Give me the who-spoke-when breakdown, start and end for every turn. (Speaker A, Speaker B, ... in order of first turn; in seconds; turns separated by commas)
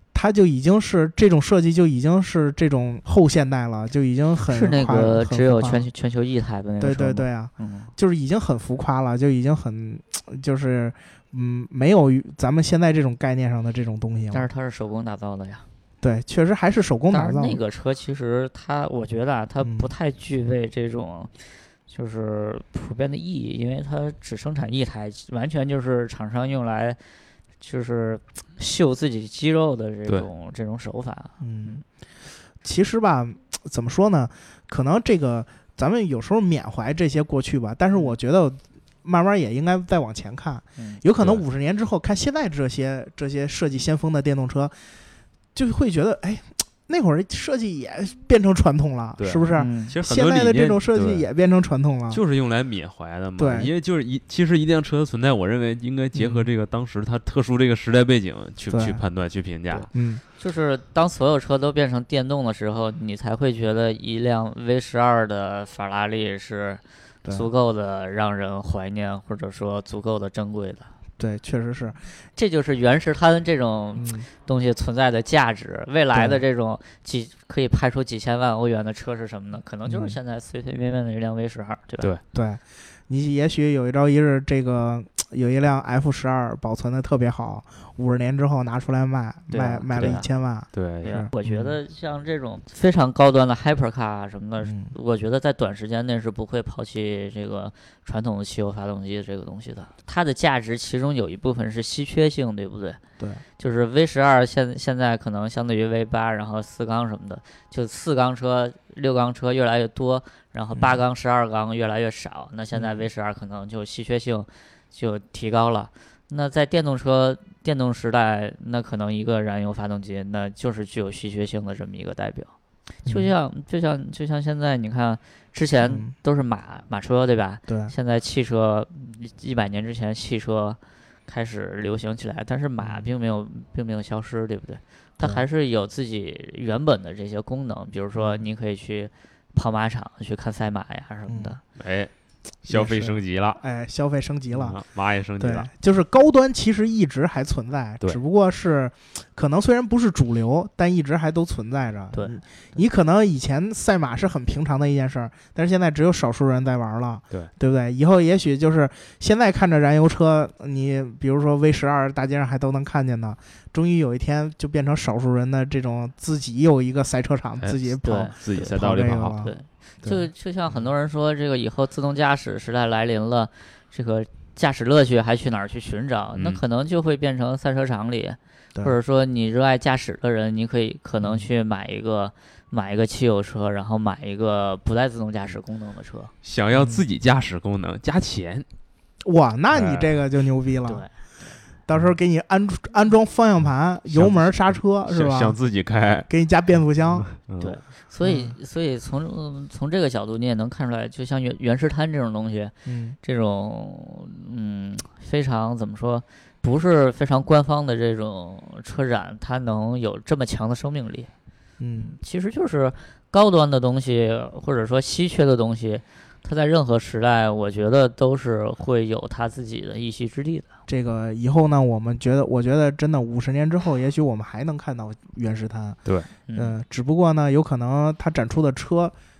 Speaker A: 0.1-5.9, Speaker B: 4.5-7.9, Speaker A: 6.8-14.5, Speaker B: 14.3-15.6, Speaker A: 16.0-17.6, Speaker B: 17.1-21.3, Speaker A: 19.6-19.9, Speaker B: 21.9-27.0, Speaker B: 27.6-31.8, Speaker A: 31.4-31.8, Speaker A: 32.6-44.7, Speaker A: 45.5-52.2, Speaker C: 49.2-51.2, Speaker B: 49.5-49.9, Speaker C: 52.1-59.9, Speaker A: 53.4-53.7, Speaker A: 56.1-56.5, Speaker A: 58.7-59.0, Speaker B: 59.7-70.9, Speaker A: 59.9-60.2, Speaker A: 71.2-72.0, Speaker B: 72.3-82.1, Speaker A: 74.0-74.3, Speaker A: 76.1-76.4, Speaker A: 79.9-80.2, Speaker A: 82.3-91.8, Speaker B: 89.5-90.3, Speaker C: 89.9-90.2, Speaker C: 90.7-91.2, Speaker B: 91.0-103.0, Speaker A: 94.6-94.9, Speaker B: 103.6-122.5, Speaker A: 110.7-111.0, Speaker A: 112.7-113.0, Speaker B: 123.0-141.6, Speaker A: 123.0-123.3, Speaker A: 125.8-126.1, Speaker A: 127.7-127.9, Speaker A: 132.8-133.1, Speaker A: 138.1-138.4, Speaker A: 141.3-141.6, Speaker C: 141.8-142.1, Speaker C: 142.6-143.6, Speaker A: 142.7-144.8, Speaker C: 144.5-145.7, Speaker A: 145.4-169.5, Speaker B: 152.1-152.4, Speaker C: 167.6-169.4, Speaker B: 168.0-168.3, Speaker B: 169.4-186.3, Speaker C: 176.3-176.6, Speaker A: 181.2-181.5, Speaker C: 186.4-188.7, Speaker A: 186.7-187.0, Speaker A: 189.2-191.1, Speaker C: 189.7-190.1, Speaker B: 190.9-191.6, Speaker A: 191.9-195.6, Speaker C: 194.1-196.3, Speaker A: 196.3-197.3, Speaker C: 197.1-197.8, Speaker B: 197.6-211.3, Speaker A: 198.2-198.6, Speaker A: 202.8-203.2, Speaker A: 211.8-212.1, Speaker B: 212.0-220.7, Speaker A: 220.9-226.0, Speaker B: 226.5-226.8, Speaker A: 226.5-229.1